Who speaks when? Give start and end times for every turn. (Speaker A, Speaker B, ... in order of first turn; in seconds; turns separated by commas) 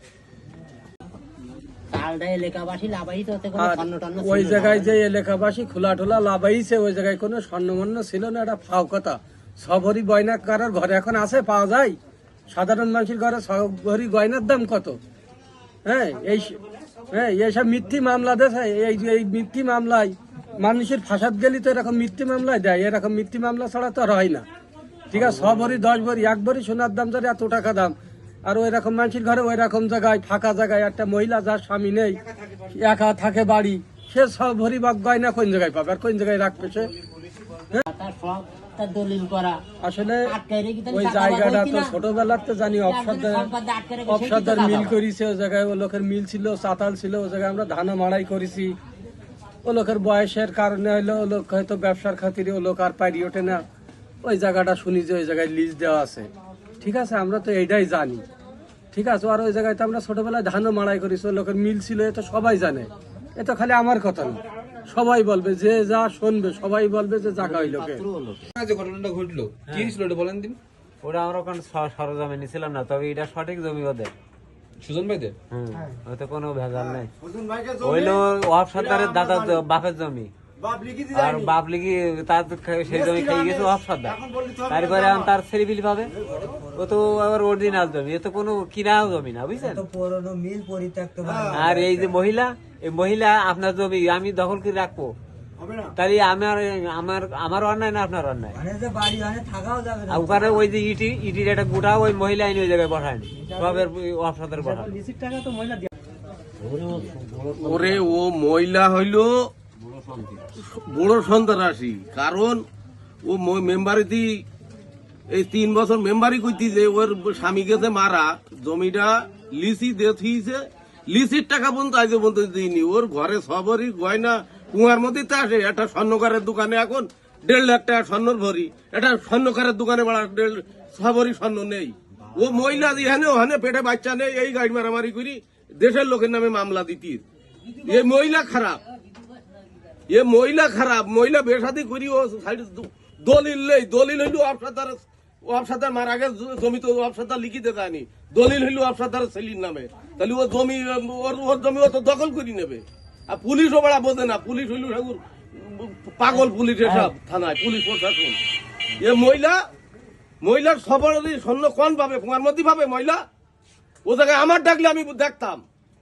Speaker A: 1.9-5.0, Speaker B: 3.6-12.0, Speaker B: 12.5-15.0, Speaker B: 15.8-16.6, Speaker B: 17.1-24.4, Speaker B: 25.1-32.2, Speaker B: 32.7-36.9, Speaker A: 37.9-39.6, Speaker B: 39.8-40.3, Speaker A: 40.3-42.0, Speaker B: 40.9-43.5, Speaker A: 42.9-45.0, Speaker B: 44.0-48.8, Speaker B: 49.6-53.6, Speaker B: 54.2-56.3, Speaker B: 56.8-58.2, Speaker B: 58.9-68.0, Speaker A: 67.4-68.5, Speaker C: 68.6-70.6, Speaker D: 69.7-70.0, Speaker D: 71.0-74.1, Speaker C: 74.8-75.3, Speaker D: 75.5-77.1, Speaker D: 77.8-80.3, Speaker D: 81.1-89.9, Speaker E: 89.6-91.8, Speaker D: 91.5-95.1, Speaker D: 95.9-98.6, Speaker E: 98.5-100.4, Speaker D: 100.1-105.0, Speaker A: 106.6-108.0, Speaker F: 107.5-109.5, Speaker F: 110.9-112.6, Speaker F: 113.2-114.4, Speaker F: 115.3-137.2, Speaker F: 137.8-138.8, Speaker F: 140.1-158.4, Speaker F: 159.0-159.6, Speaker F: 160.4-163.2, Speaker F: 164.1-165.6